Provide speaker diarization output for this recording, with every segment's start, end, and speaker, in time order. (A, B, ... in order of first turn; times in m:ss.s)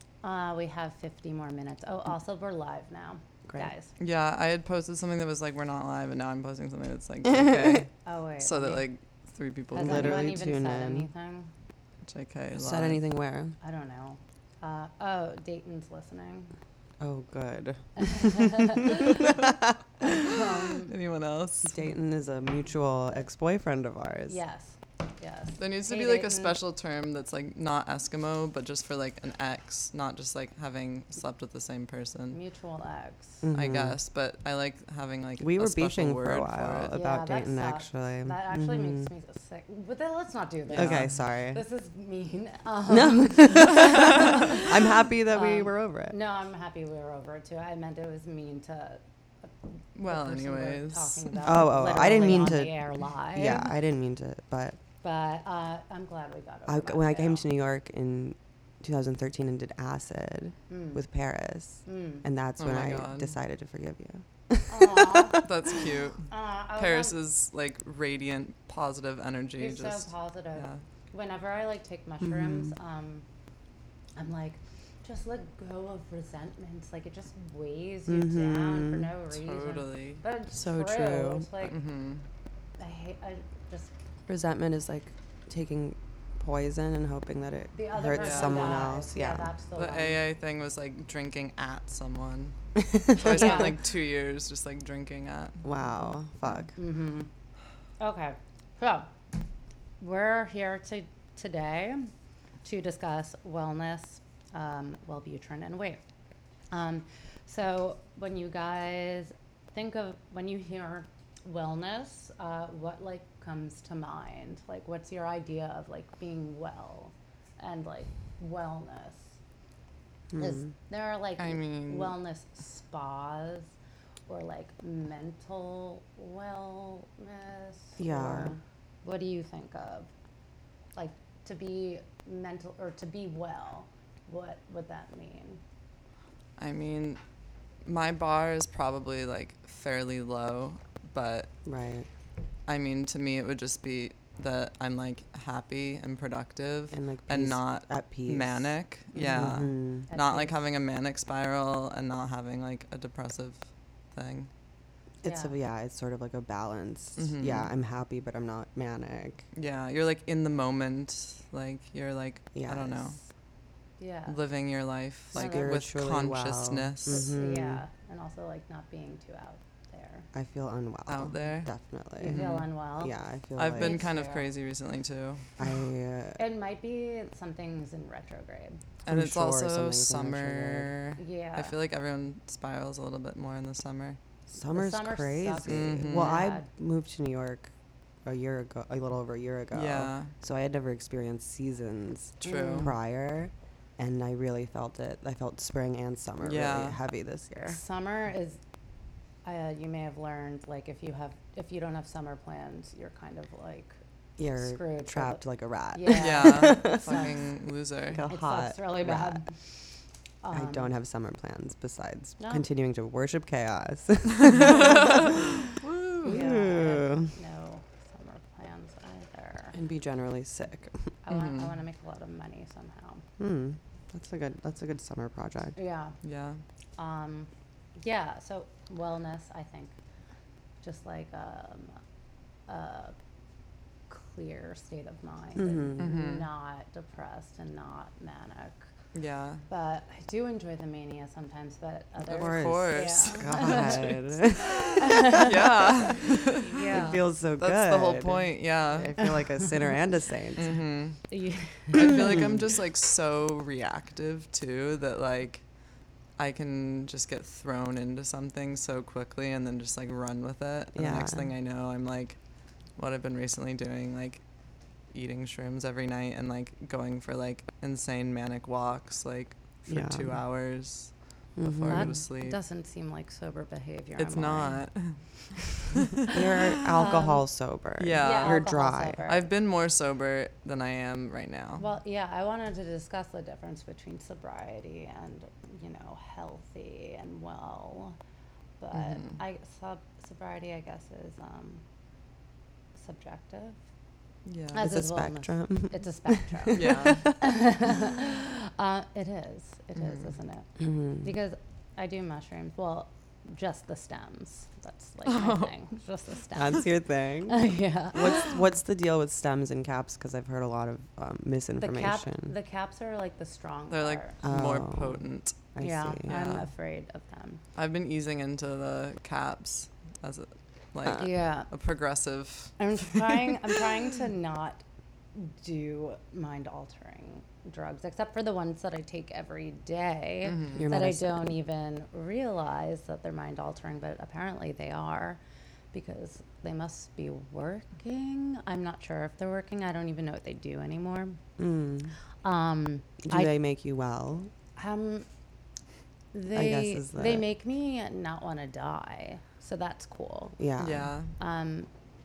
0:00.2-0:03.9 A
0:04.0-0:10.4 B
0:08.1-0:08.8 A
0:09.7-0:11.5 A
0:09.8-0:11.1 C
0:12.1-0:13.0 B
0:12.6-0:13.6 C
0:13.6-0:16.5 A
0:17.0-0:19.8 C
0:18.0-0:19.4 A
0:20.0-0:20.9 A
0:20.1-0:21.8 B
0:21.7-0:24.4 C
0:24.3-0:26.6 A
0:25.6-0:32.4 B
0:32.3-0:33.4 A
0:33.4-0:34.0 C
0:33.5-0:36.9 B
0:35.4-0:39.1 C
0:36.9-0:53.8 A
0:40.7-0:41.1 B
0:40.7-0:41.6 C
0:42.9-0:46.2 C
0:50.0-0:51.4 B
0:51.4-0:54.8 C
0:55.0-0:57.5 A
0:56.7-1:05.7 C
1:00.7-1:01.0 A
1:01.8-1:02.2 A
1:02.6-1:03.3 B
1:04.7-1:05.4 A
1:05.4-1:10.8 B
1:06.3-1:07.2 A
1:09.6-1:13.3 A
1:12.2-1:12.7 C
1:14.2-1:21.8 A
1:18.1-1:19.1 C
1:19.3-1:20.2 B
1:20.5-1:21.5 C
1:21.6-1:22.2 B
1:22.8-1:23.9 A
1:24.3-1:29.5 C
1:27.7-1:30.2 A
1:28.1-1:28.9 B
1:29.8-1:32.6 B
1:32.8-1:33.7 C
1:33.1-1:35.7 B
1:33.2-1:33.8 A
1:35.6-1:36.8 C
1:36.8-1:37.3 A
1:38.0-1:39.1 A
1:40.0-1:42.1 A
1:42.6-1:46.0 A
1:46.7-1:59.4 A
2:00.3-2:00.7 C
2:00.4-2:03.7 A
2:01.4-2:02.2 B
2:04.3-2:10.1 A
2:08.0-2:08.6 C
2:11.0-2:15.6 A
2:16.6-2:17.2 B
2:17.9-2:21.5 B
2:21.7-2:22.1 C
2:22.7-2:33.6 B
2:26.9-2:30.1 C
2:29.2-2:29.4 A
2:30.1-2:30.6 A
2:34.1-2:34.5 B
2:35.2-2:39.4 C
2:35.2-2:35.5 A
2:37.2-2:37.7 B
2:39.6-2:43.2 B
2:42.6-2:43.1 C
2:44.0-2:44.4 A
2:44.3-2:47.3 B
2:45.3-2:45.8 A
2:45.3-2:47.8 C
2:47.1-2:50.3 A
2:50.3-2:52.4 C
2:51.1-2:51.7 B
2:52.2-2:53.2 A
2:52.3-2:52.7 B
2:53.0-2:54.0 C
2:53.6-2:55.4 B
2:53.8-2:54.5 A
2:55.6-2:56.4 C
2:56.4-2:58.8 A
2:59.0-3:04.2 B
2:59.1-3:00.9 C
3:01.2-3:01.8 A
3:04.5-3:07.7 C
3:04.7-3:06.7 A
3:05.7-3:06.4 B
3:08.2-3:17.8 C
3:09.7-3:10.3 B
3:12.4-3:12.9 B
3:12.4-3:12.9 A
3:16.4-3:17.0 B
3:17.7-3:18.6 A
3:19.4-3:24.0 A
3:24.4-3:27.3 C
3:24.5-3:25.4 A
3:25.9-3:27.3 A
3:26.1-3:28.2 B
3:28.1-3:29.4 C
3:28.3-3:29.5 A
3:30.4-3:30.9 A
3:30.5-3:35.6 C
3:32.4-3:32.6 A
3:34.4-3:36.4 B
3:36.2-3:37.3 C
3:36.2-3:39.8 A
3:39.7-3:41.1 C
3:41.3-3:43.2 A
3:41.3-3:41.8 B
3:43.4-3:45.8 C
3:45.8-3:46.2 A
3:46.2-3:46.6 B
3:47.0-3:49.9 A
3:50.8-3:52.0 A
3:52.7-3:53.2 A
3:54.1-3:58.9 A
3:55.6-3:56.2 C
3:56.0-3:56.5 B
3:59.1-3:59.6 B
3:59.7-4:07.2 A
4:02.3-4:06.2 C
4:02.3-4:09.4 B
4:06.8-4:10.8 C
4:10.6-4:11.2 B
4:11.3-4:12.4 A
4:11.9-4:15.6 B
4:16.4-4:22.4 B
4:21.0-4:21.5 C
4:23.0-4:24.4 B
4:25.1-4:32.6 B
4:29.9-4:30.4 C
4:31.6-4:32.2 C
4:31.9-4:34.8 A
4:34.2-4:35.2 B
4:35.8-4:36.7 B
4:36.3-4:39.3 C
4:36.9-4:37.4 A
4:38.0-4:38.7 B
4:38.2-4:39.5 A
4:39.3-4:41.8 B
4:41.8-4:48.2 A
4:48.8-4:51.8 A
4:49.0-4:49.4 B
4:53.0-4:53.8 A
4:54.5-4:54.9 B
4:54.7-5:06.9 A
4:54.8-4:57.4 C
4:56.7-4:57.3 B
5:00.8-5:01.2 C
5:05.3-5:05.7 B
5:06.5-5:12.5 C
5:07.5-5:08.5 A
5:11.8-5:14.4 A
5:13.9-5:15.6 B
5:14.4-5:15.2 C
5:15.8-5:16.6 C
5:15.8-5:17.6 A
5:16.3-5:16.7 B
5:17.8-5:22.8 B
5:21.2-5:21.7 A
5:22.8-5:24.8 A
5:25.3-5:35.4 A
5:30.4-5:30.9 B
5:30.8-5:31.5 C
5:35.9-5:41.4 A
5:41.6-5:42.1 C
5:42.4-5:43.5 A
5:43.2-5:44.5 C
5:44.8-5:45.3 A
5:46.3-5:50.6 A
5:46.5-5:47.5 C
5:50.6-5:51.1 C
5:50.8-5:51.3 B
5:51.4-5:51.9 A